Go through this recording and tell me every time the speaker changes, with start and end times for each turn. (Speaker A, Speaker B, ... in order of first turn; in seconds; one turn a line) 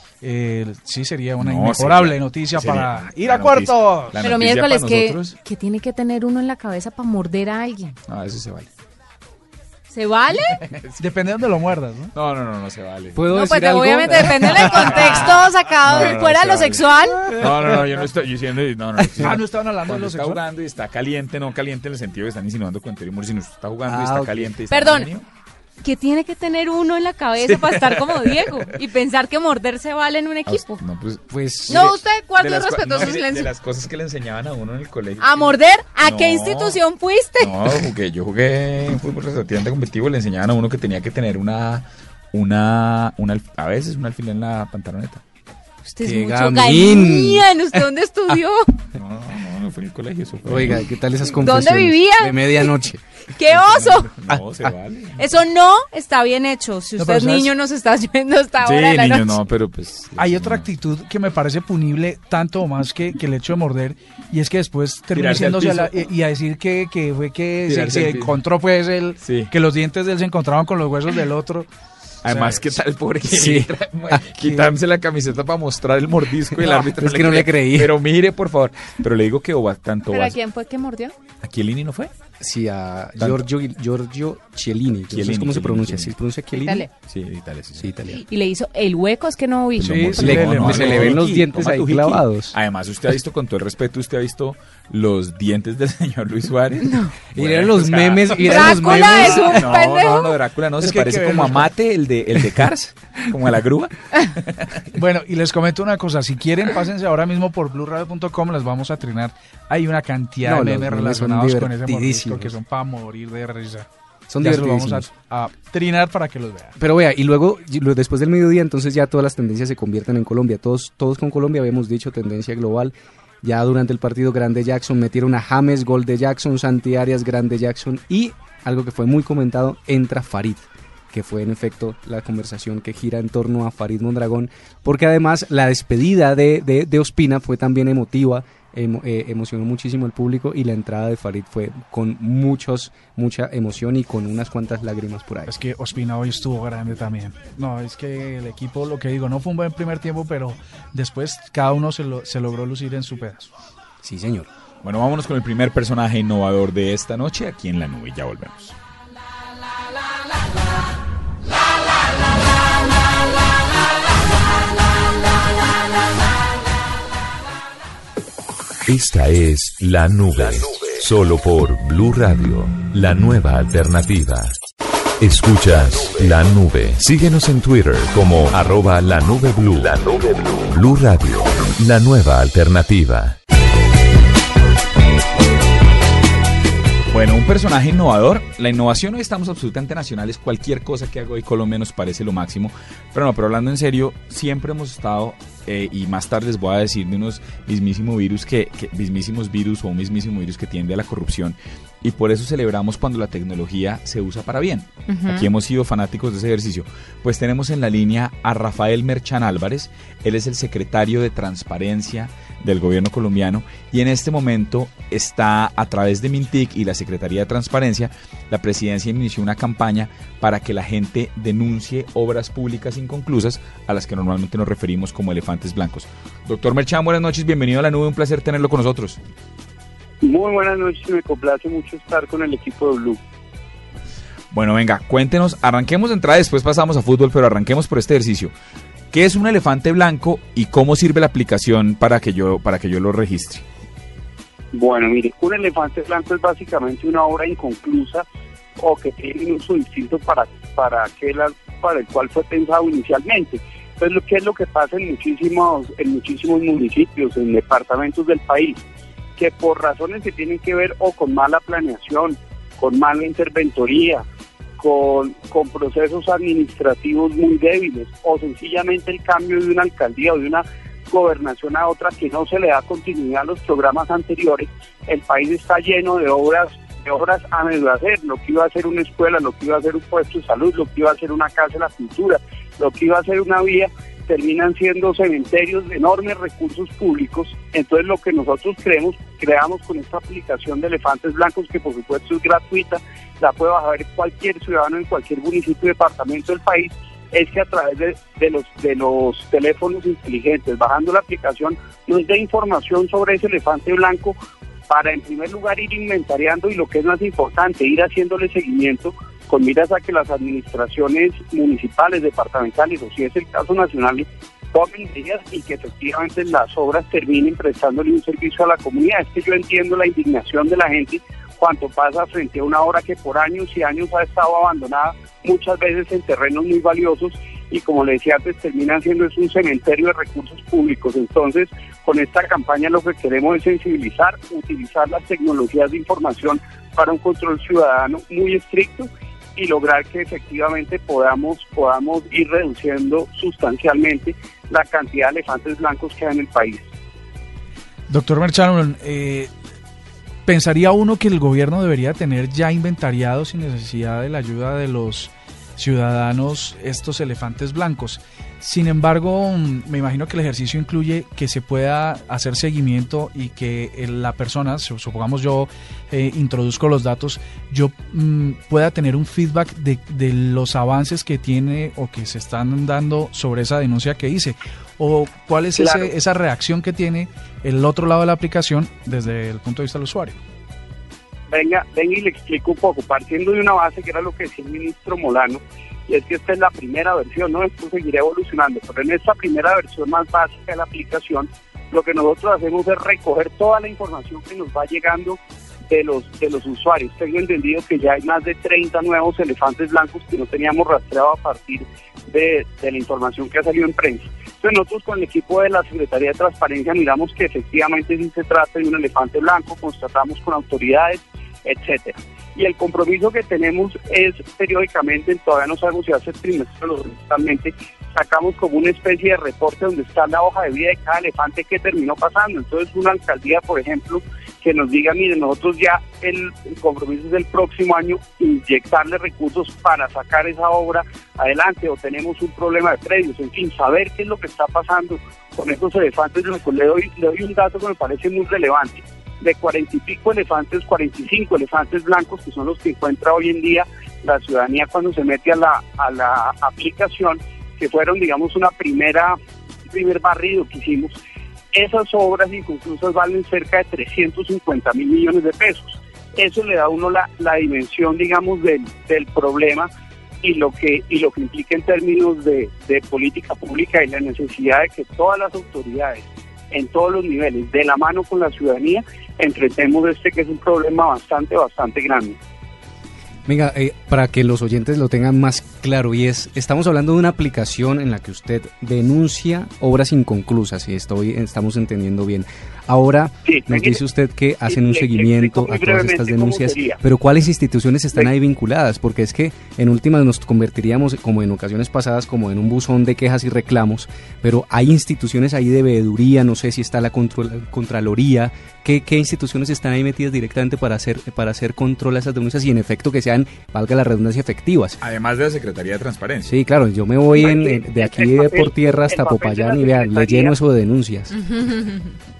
Speaker A: 0.2-4.2
Speaker B: 1.4-5.3
Speaker C: 4.2-8.0
Speaker B: 8.1-8.7
Speaker C: 9.9-10.6
Speaker B: 10.6-11.0
Speaker A: 11.0-12.1
Speaker B: 12.1-13.2
Speaker D: 13.1-15.3
Speaker C: 13.3-17.4
Speaker B: 14.6-25.2
Speaker D: 17.2-17.6
Speaker A: 19.2-20.4
Speaker D: 23.9-24.5
Speaker C: 24.7-25.1
Speaker C: 25.8-30.8
Speaker B: 27.4-28.5
Speaker B: 30.5-36.8
Speaker D: 31.3-31.9
Speaker C: 31.7-33.5
Speaker C: 35.2-37.8
Speaker B: 37.4-45.2
Speaker C: 45.8-48.8
Speaker D: 46.0-47.8
Speaker B: 48.9-51.4
Speaker D: 50.4-53.0
Speaker C: 51.3-52.7
Speaker C: 53.3-54.1
Speaker B: 53.5-55.3
Speaker D: 54.4-54.8
Speaker C: 55.2-59.4
Speaker A: 57.0-57.5
Speaker B: 58.6-60.6
Speaker A: 60.2-71.7
Speaker B: 65.1-66.0
Speaker B: 67.7-68.4
Speaker B: 69.2-69.5
Speaker B: 72.2-80.4
Speaker A: 72.2-72.8
Speaker D: 73.2-74.2
Speaker A: 74.4-74.7
Speaker D: 76.5-78.0
Speaker C: 80.1-81.1
Speaker B: 81.4-82.1
Speaker D: 82.4-86.8
Speaker B: 83.2-83.4
Speaker B: 85.1-86.1
Speaker C: 86.5-86.9
Speaker B: 87.0-87.9
Speaker D: 87.8-88.2
Speaker C: 88.2-90.8
Speaker B: 89.8-104.9
Speaker A: 89.8-91.4
Speaker D: 90.2-92.5
Speaker C: 96.8-97.1
Speaker D: 97.3-99.8
Speaker C: 98.4-100.4
Speaker A: 100.8-101.7
Speaker A: 104.9-113.9
Speaker D: 110.4-112.5
Speaker D: 114.3-115.1
Speaker A: 114.4-116.8
Speaker D: 116.8-145.5
Speaker A: 145.5-153.5
Speaker D: 154.0-154.5
Speaker B: 154.8-158.8
Speaker E: 168.9-174.5
Speaker E: 175.2-183.3
Speaker B: 187.1-229.2
Speaker C: 205.1-205.5
Speaker F: 230.2-233.2
Speaker B: 234.5-238.5
Speaker B: 239.1-243.6
Speaker F: 244.7-248.2
Speaker F: 248.8-258.8
Speaker F: 259.4-264.2
Speaker F: 264.8-304.4
Speaker F: 304.9-346.8
Speaker A: 348.1-349.5
Speaker A: 350.4-380.4
Speaker F: 375.8-376.1
Speaker F: 381.5-449.4
Speaker F: 449.9-451.1
Speaker F: 451.7-459.9
Speaker F: 460.4-472.4
Speaker D: 473.4-505.0
Speaker F: 483.4-484.0
Speaker F: 484.7-487.0
Speaker B: 505.0-506.6
Speaker D: 506.5-511.3
Speaker F: 507.4-510.6
Speaker C: 511.4-512.0